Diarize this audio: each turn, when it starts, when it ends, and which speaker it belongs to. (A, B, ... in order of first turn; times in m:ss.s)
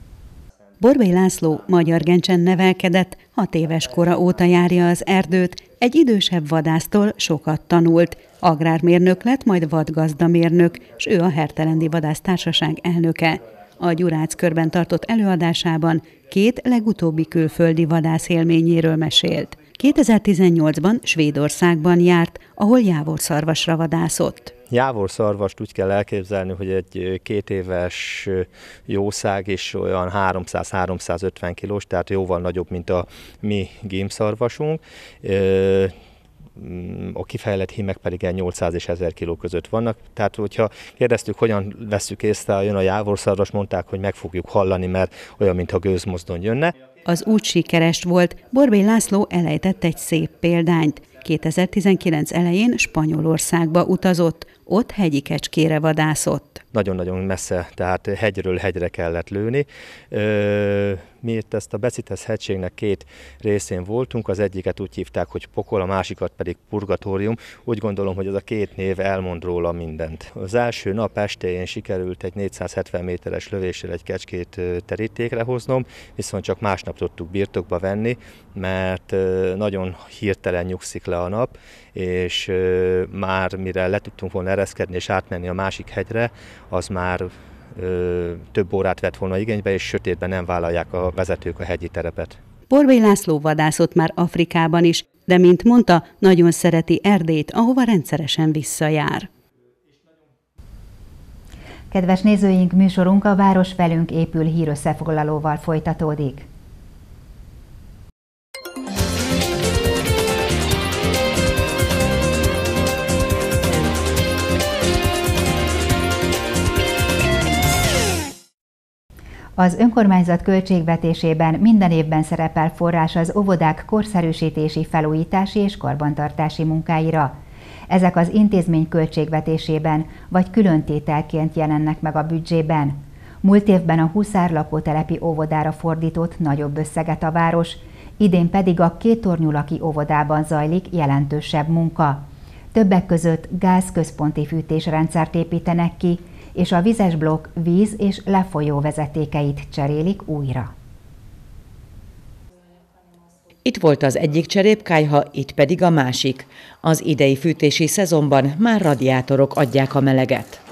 0:00.8-0:24.5 A
0:24.7-0:36.0 B
0:36.6-0:46.7 B
0:47.0-0:56.6 A
0:56.7-1:32.4 B
1:32.7-1:39.3 A
1:41.9-1:46.5 C
1:59.6-2:07.4 C
2:07.9-2:30.7 C
2:33.6-2:40.6 D